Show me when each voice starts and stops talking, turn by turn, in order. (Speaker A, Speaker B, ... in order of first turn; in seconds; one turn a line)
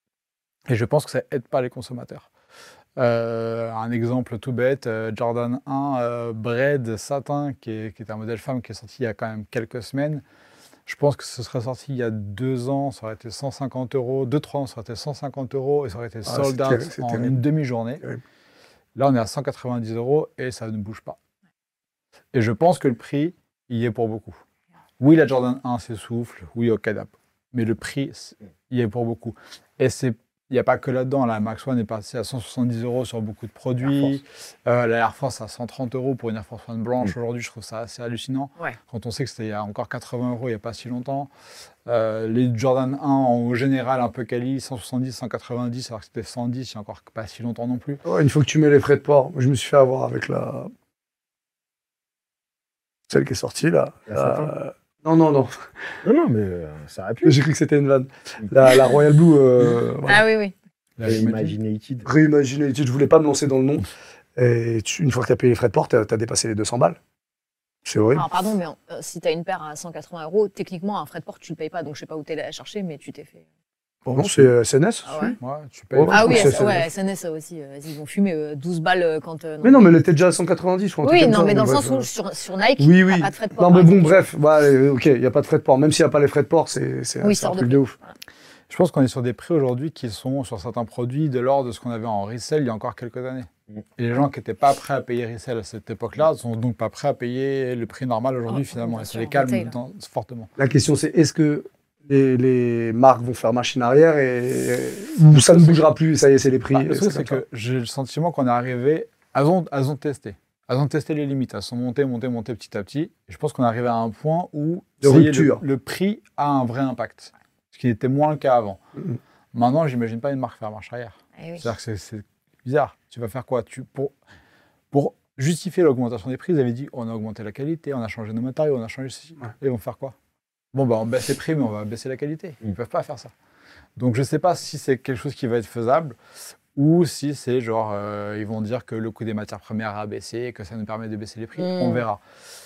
Speaker A: 0.7-2.3
Speaker A: 3.0-10.2
Speaker A: 10.9-18.0
Speaker B: 16.2-17.3
Speaker A: 18.9-21.2
Speaker A: 22.3-24.4
Speaker A: 25.0-41.3
Speaker A: 41.9-48.0
Speaker B: 48.0-50.7
Speaker B: 53.1-55.5
Speaker C: 54.1-54.5
Speaker C: 56.0-57.4
Speaker B: 57.2-60.2
Speaker D: 60.1-60.5
Speaker A: 61.0-61.5
Speaker C: 61.0-62.0
Speaker B: 62.0-67.0
Speaker B: 67.8-68.3
Speaker D: 68.1-73.4
Speaker A: 74.0-74.5
Speaker B: 74.1-75.4
Speaker D: 75.0-75.4
Speaker A: 75.4-76.6
Speaker B: 75.9-76.9
Speaker D: 76.1-79.9
Speaker B: 79.6-82.1
Speaker D: 81.0-84.2
Speaker B: 82.8-88.0
Speaker D: 87.2-88.1
Speaker A: 88.7-100.5
Speaker D: 98.5-99.7
Speaker B: 100.6-107.4
Speaker A: 105.3-105.9
Speaker A: 106.7-118.8
Speaker B: 115.0-115.6
Speaker A: 119.5-124.1
Speaker D: 121.4-121.7
Speaker A: 124.9-130.1
Speaker A: 130.7-133.3
Speaker A: 134.0-136.2
Speaker A: 136.8-142.2
Speaker D: 141.6-142.0